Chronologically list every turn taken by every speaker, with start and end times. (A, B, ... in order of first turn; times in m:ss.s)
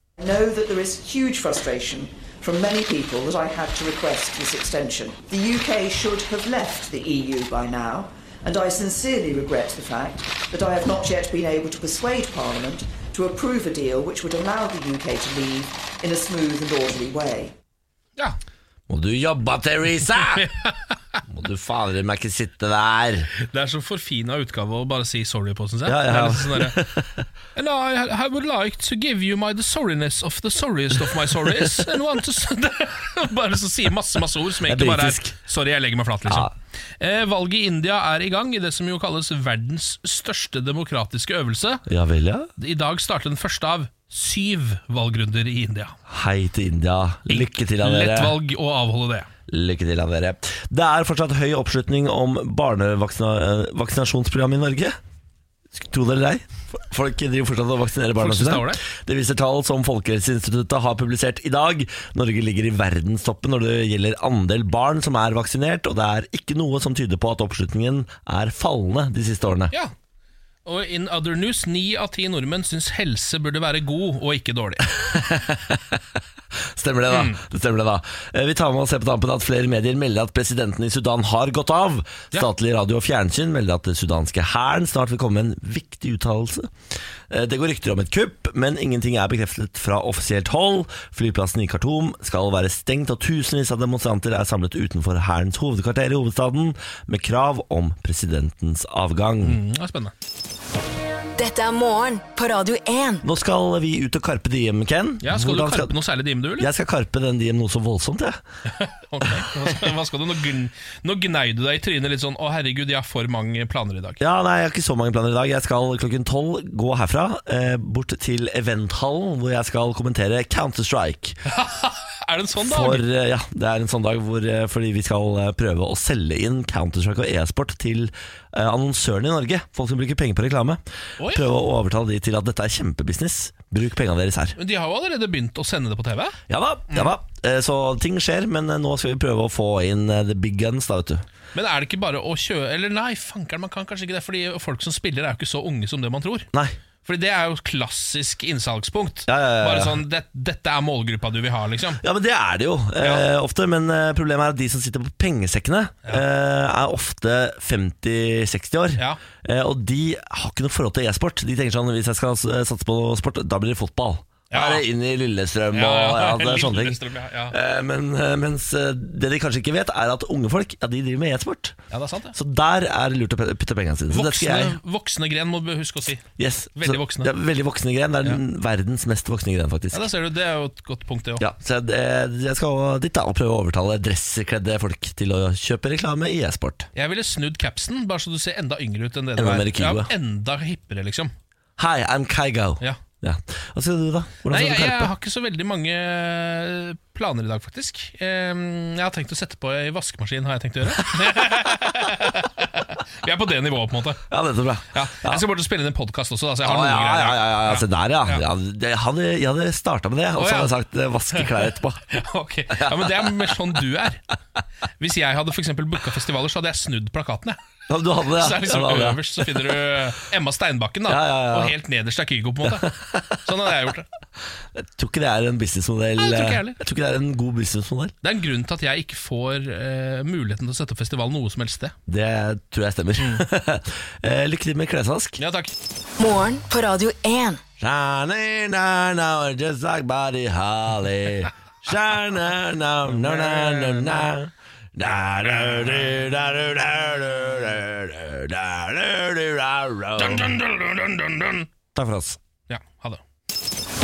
0:00.2-0:17.6 A
0:18.9-0:20.5 B
0:20.3-0:21.0 C
0:21.2-0:23.3 B
0:23.4-0:26.8 C
0:25.8-0:27.1 B
0:27.5-0:41.8 C
0:34.6-0:35.3 B
0:41.9-0:42.5 B
0:42.6-0:46.0 C
0:46.1-0:48.4 B
0:47.3-0:49.3 C
0:49.5-0:55.0 B
0:55.7-1:09.7 B
0:58.2-0:58.8 C
1:10.6-1:14.9 C
1:14.9-1:15.9 B
1:16.7-1:26.7 B
1:17.1-1:17.4 C
1:27.3-1:39.6 B
1:39.4-1:40.1 C
1:41.4-1:43.2 D
1:43.2-1:46.0 B
1:45.2-1:46.7 C
1:46.6-1:48.4 B
1:48.7-1:54.2 C
1:54.2-2:01.4 B
2:01.5-2:03.0 C
2:02.6-2:14.6 B
2:11.2-2:11.4 C
2:14.6-2:16.4 C
2:16.5-2:21.2 B
2:21.5-2:26.5 C
2:27.0-2:32.0 C
2:29.3-2:30.0 B
2:32.0-2:51.8 B
2:33.0-2:33.3 C
2:44.5-2:44.9 C
2:45.7-2:47.5 C
2:51.9-2:52.3 C
2:52.3-2:54.8 B
2:54.1-2:56.2 C
2:56.4-3:00.1 B
2:56.8-2:57.3 C
2:59.9-3:01.4 C
3:01.4-3:06.9 B
3:06.9-3:11.3 C
3:09.4-3:10.1 B
3:11.8-3:15.1 B
3:14.5-3:24.2 C
3:21.1-3:21.6 B
3:24.3-3:25.4 B
3:24.9-3:28.4 C
3:26.6-3:32.0 B
3:30.4-3:30.7 C
3:31.3-3:34.2 C
3:32.7-3:33.5 B
3:35.0-3:37.6 C
3:37.9-3:39.7 B
3:38.2-3:44.1 C
3:41.1-3:41.7 B
3:42.7-3:43.4 B
3:44.7-3:48.1 B
3:46.2-3:46.8 C
3:48.2-3:51.9 C
3:52.1-3:55.4 B
3:53.2-3:53.5 C
3:55.4-3:55.7 C
3:56.2-3:57.6 D
3:57.8-4:10.6 B
4:03.1-4:04.3 C
4:10.2-4:11.7 C
4:11.9-4:12.4 B
4:12.7-4:13.2 C